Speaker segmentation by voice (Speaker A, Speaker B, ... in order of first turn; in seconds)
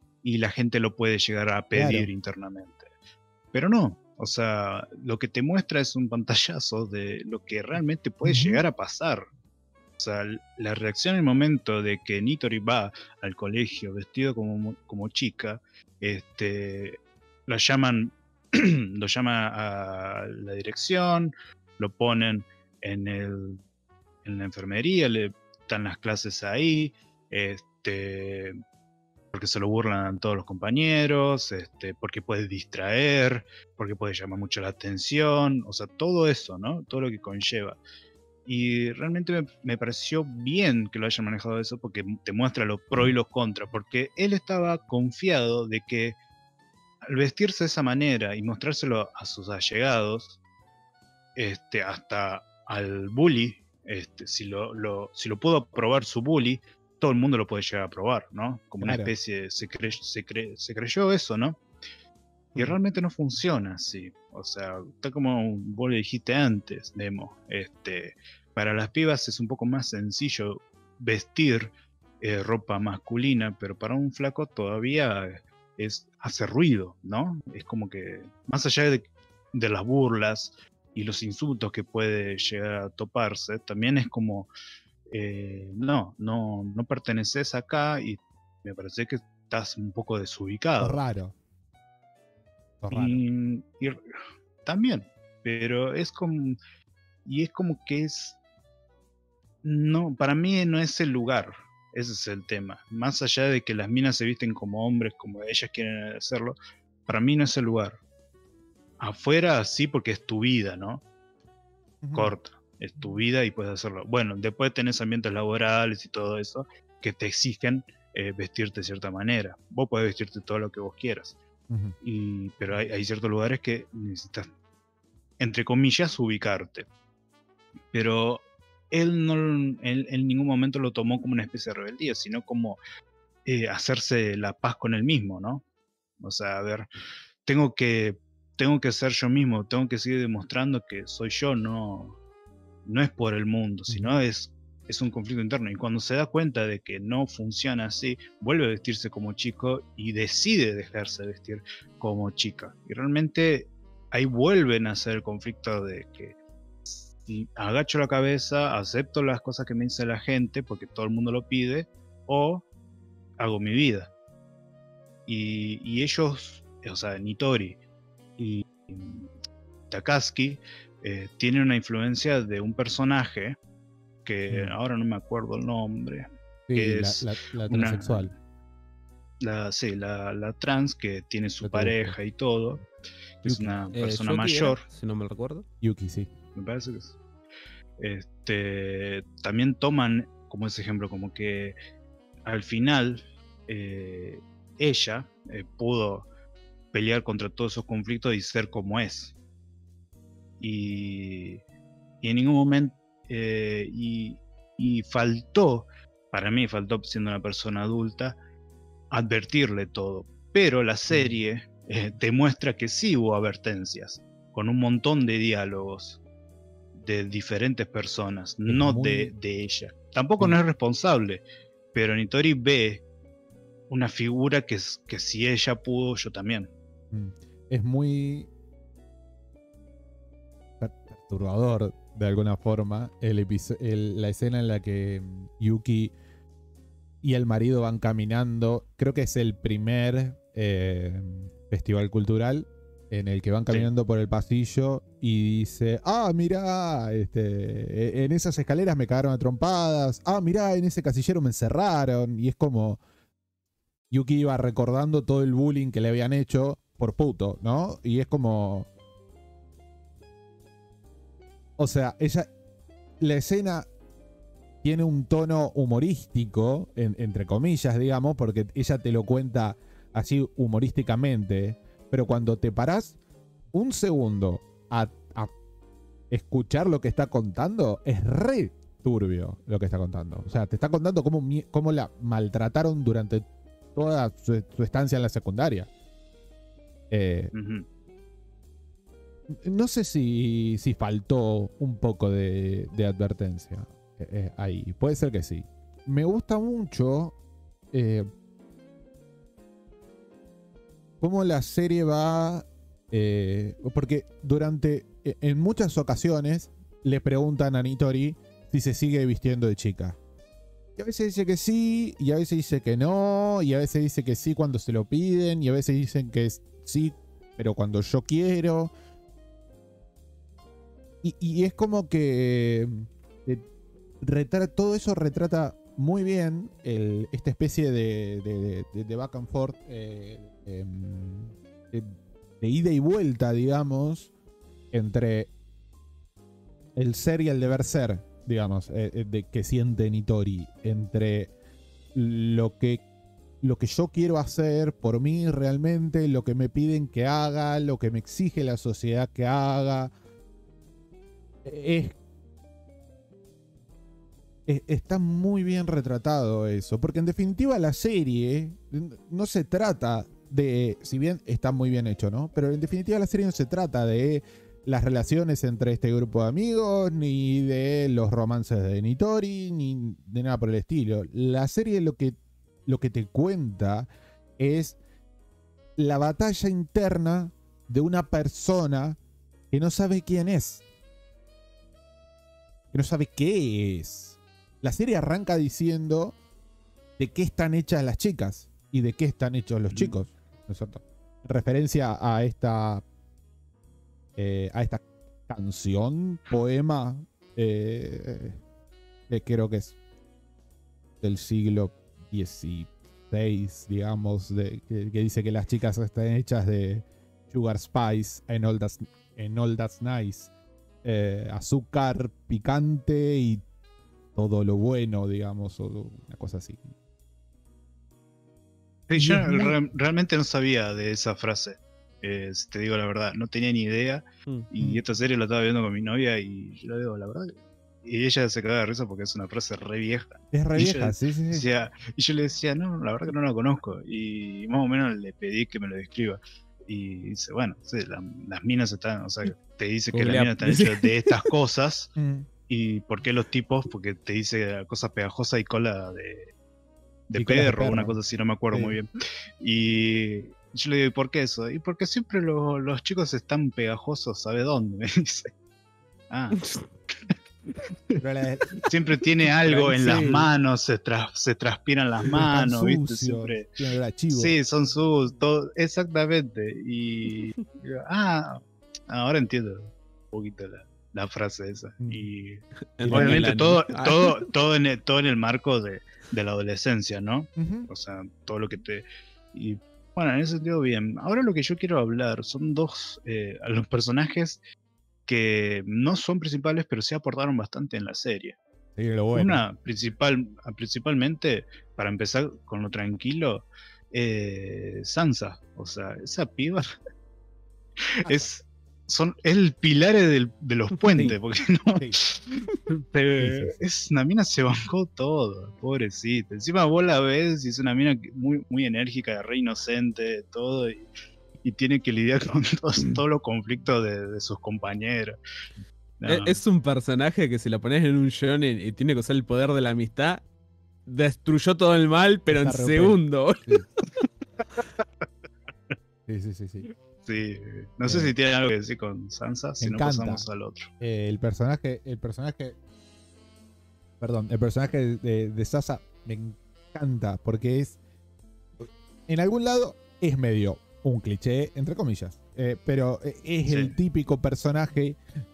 Speaker A: 0.2-2.9, 3.5-9.3, 10.0-23.6, 24.2-28.6, 29.3-37.8, 38.5-46.2, 47.0-50.4, 51.4-61.6, 62.6-84.5, 85.1-91.0, 92.9-94.0, 94.7-96.6, 97.3-98.4, 99.6-108.0, 109.0-111.0, 112.1-121.4, 122.0-124.5, 125.4-126.9, 127.9-132.8, 133.5-135.6, 136.2-136.9, 137.4-142.2, 142.9-162.7, 163.4-164.1, 165.3-167.8, 168.4-169.3, 169.9-173.6, 174.2-178.3, 179.4-182.8, 183.4-184.8, 186.6-187.2, 188.0-191.8, 192.5-196.3, 196.9-199.3, 200.6-201.6, 202.2-208.4, 209.1-216.2, 216.9-223.0, 223.9-226.7, 287.5-287.9, 389.9-390.1, 419.1-442.1, 442.7-446.5, 447.3-455.5, 456.3-456.6, 458.9-463.7, 464.3-484.6, 485.3-488.6, 489.3-496.9, 498.1-502.5, 503.1-511.1, 511.6-515.4, 516.2-516.6, 527.2-530.9, 543.7-544.0
Speaker B: 1.7-2.1, 8.2-8.6, 58.8-59.1, 90.8-91.3, 92.8-93.2, 112.0-112.3, 121.7-122.0, 143.9-144.2, 176.7-178.3, 183.4-183.7, 185.8-186.3, 211.1-211.4, 218.7-219.3, 227.1-228.5, 230.8-236.1, 237.2-253.0, 254.1-258.9, 261.8-262.5, 263.2-263.9, 264.8-273.1, 273.7-275.5, 276.3-285.9, 287.1-287.5, 289.5-297.4, 297.9-298.3, 301.2-310.2, 311.0-318.9, 321.2-323.6, 324.2-334.3, 334.9-335.5, 337.0-341.5, 342.1-343.0, 343.6-350.1, 351.6-352.1, 354.7-375.0, 376.0-379.2, 379.7-380.8, 382.9-386.4, 387.2-393.0, 394.4-398.6, 399.3-399.9, 401.2-410.5, 411.0-413.6, 414.4-416.9, 419.2-419.8, 430.5-431.7, 442.2-442.5, 447.4-448.2, 448.7-449.0, 458.2-458.9, 459.7-460.4, 462.3-464.6, 472.0-472.3, 473.0-474.1, 477.6-477.9, 489.0-489.6, 501.9-502.2, 503.4-503.8, 522.5-523.9, 526.3-526.9, 528.1-528.3, 529.8-530.5, 531.0-532.8, 534.2-538.0, 538.8-545.2
Speaker C: 181.7-182.1, 183.9-185.7, 440.1-441.5, 473.0-474.1, 516.3-520.4, 521.1-523.8